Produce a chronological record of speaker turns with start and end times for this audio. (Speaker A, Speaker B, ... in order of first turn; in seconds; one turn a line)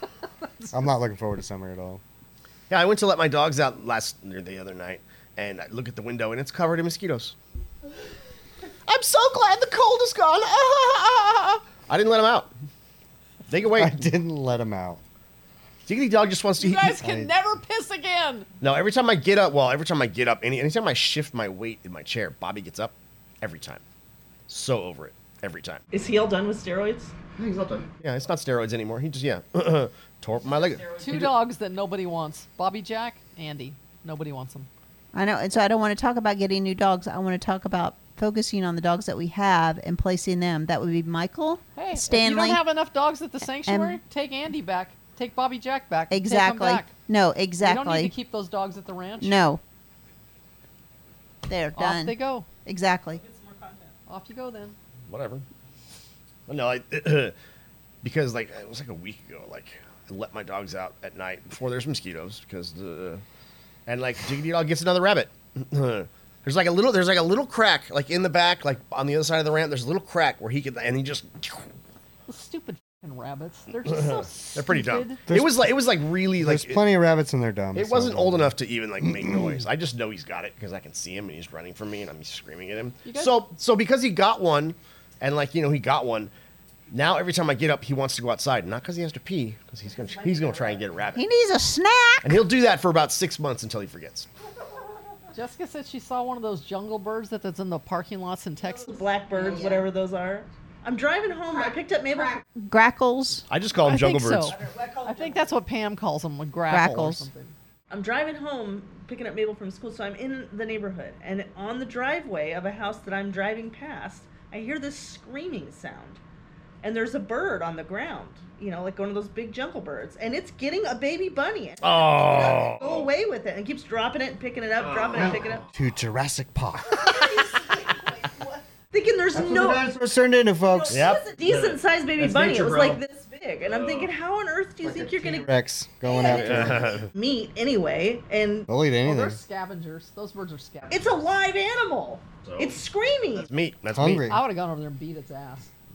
Speaker A: 0.4-0.7
Speaker B: 0.7-2.0
Speaker C: 2.7-7.3
Speaker C: 8.9-12.5
Speaker C: 13.5-14.0
Speaker B: 13.8-15.0
Speaker C: 15.9-17.0
Speaker A: 16.6-18.5
Speaker B: 17.0-17.3
Speaker C: 18.6-23.8
Speaker C: 24.5-25.8
Speaker D: 25.9-27.1
Speaker C: 27.4-31.4
Speaker A: 31.0-34.7
Speaker E: 35.1-42.6
Speaker A: 41.8-46.9
Speaker E: 43.6-44.0
Speaker E: 46.1-48.1
Speaker A: 47.6-49.4
Speaker E: 49.2-49.6
Speaker E: 51.5-53.2
Speaker A: 51.8-52.5
Speaker D: 53.2-53.8
Speaker A: 54.1-54.8
Speaker C: 55.1-55.5
Speaker C: 56.5-57.3
Speaker C: 58.0-63.2
Speaker C: 63.9-71.7
Speaker A: 72.3-75.2
Speaker C: 73.9-76.8
Speaker B: 75.3-75.6
Speaker B: 76.4-79.5
Speaker C: 77.8-86.3
Speaker A: 83.0-83.4
Speaker C: 86.9-91.2
Speaker D: 90.5-90.8
Speaker E: 91.1-92.4
Speaker C: 92.2-94.3
Speaker A: 95.3-99.0
Speaker D: 98.6-102.4
Speaker E: 102.2-103.5
Speaker C: 103.5-104.6
Speaker A: 103.8-107.5
Speaker D: 104.6-105.3
Speaker E: 106.7-107.3
Speaker D: 107.9-116.2
Speaker D: 116.8-125.7
Speaker C: 121.8-123.1
Speaker C: 124.8-125.5
Speaker B: 125.8-127.1
Speaker D: 126.9-129.9
Speaker B: 129.3-131.1
Speaker D: 130.7-135.5
Speaker C: 130.9-133.0
Speaker C: 133.6-134.1
Speaker B: 134.8-136.9
Speaker D: 136.0-138.7
Speaker C: 136.2-137.1
Speaker B: 138.7-139.4
Speaker A: 139.0-141.2
Speaker D: 140.9-143.5
Speaker C: 142.4-142.8
Speaker C: 143.4-144.3
Speaker B: 143.9-144.4
Speaker A: 144.3-145.7